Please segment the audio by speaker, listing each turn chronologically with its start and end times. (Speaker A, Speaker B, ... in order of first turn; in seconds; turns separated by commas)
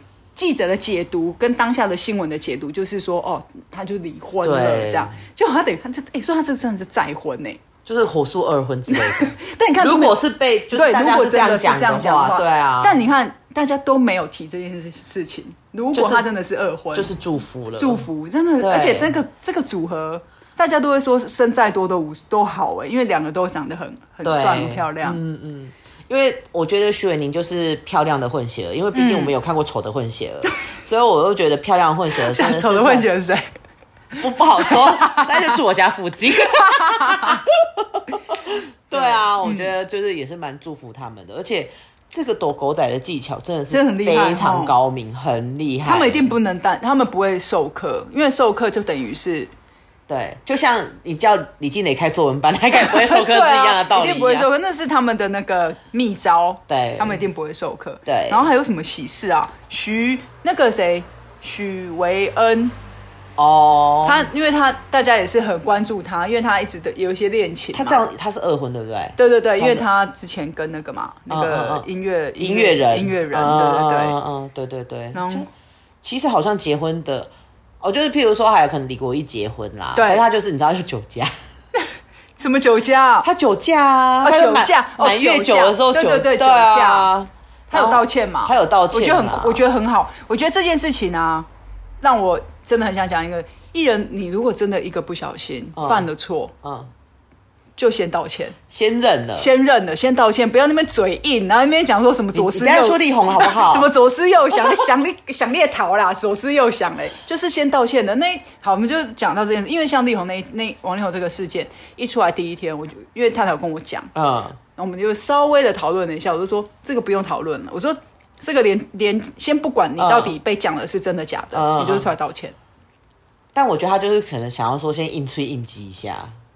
Speaker A: 0.4-7.6, Speaker B: 4.4-5.2, Speaker B: 7.9-13.0, Speaker A: 8.9-10.2, Speaker A: 10.7-17.1, Speaker B: 15.9-16.3, Speaker B: 16.9-18.1, Speaker A: 17.8-25.2, Speaker B: 18.6-19.1, Speaker B: 24.2-33.1, Speaker A: 28.9-29.3, Speaker A: 32.2-33.5, Speaker A: 34.1-35.6, Speaker B: 34.2-46.3, Speaker A: 36.4-37.4, Speaker A: 38.9-39.7, Speaker A: 43.7-44.7, Speaker A: 45.8-49.5, Speaker B: 50.1-54.5, Speaker A: 52.7-62.8, Speaker B: 56.7-57.2, Speaker B: 58.1-58.5, Speaker B: 63.4-64.3, Speaker A: 64.0-68.0, Speaker B: 67.7-69.9, Speaker A: 69.2-74.2, Speaker B: 71.3-71.9, Speaker B: 72.4-75.5, Speaker A: 75.1-75.5, Speaker B: 76.0-81.3, Speaker A: 80.0-80.2, Speaker A: 82.4-83.3, Speaker B: 83.2-89.6, Speaker A: 84.2-87.1, Speaker A: 87.7-91.5, Speaker A: 92.0-96.5, Speaker B: 95.8-96.1, Speaker B: 96.6-96.9, Speaker A: 97.8-98.6, Speaker B: 98.7-99.5, Speaker A: 99.4-114.1, Speaker B: 102.3-103.9, Speaker B: 104.6-104.9, Speaker B: 114.2-114.6, Speaker A: 114.8-122.5, Speaker B: 120.0-120.3, Speaker B: 121.5-122.1, Speaker B: 123.5-126.3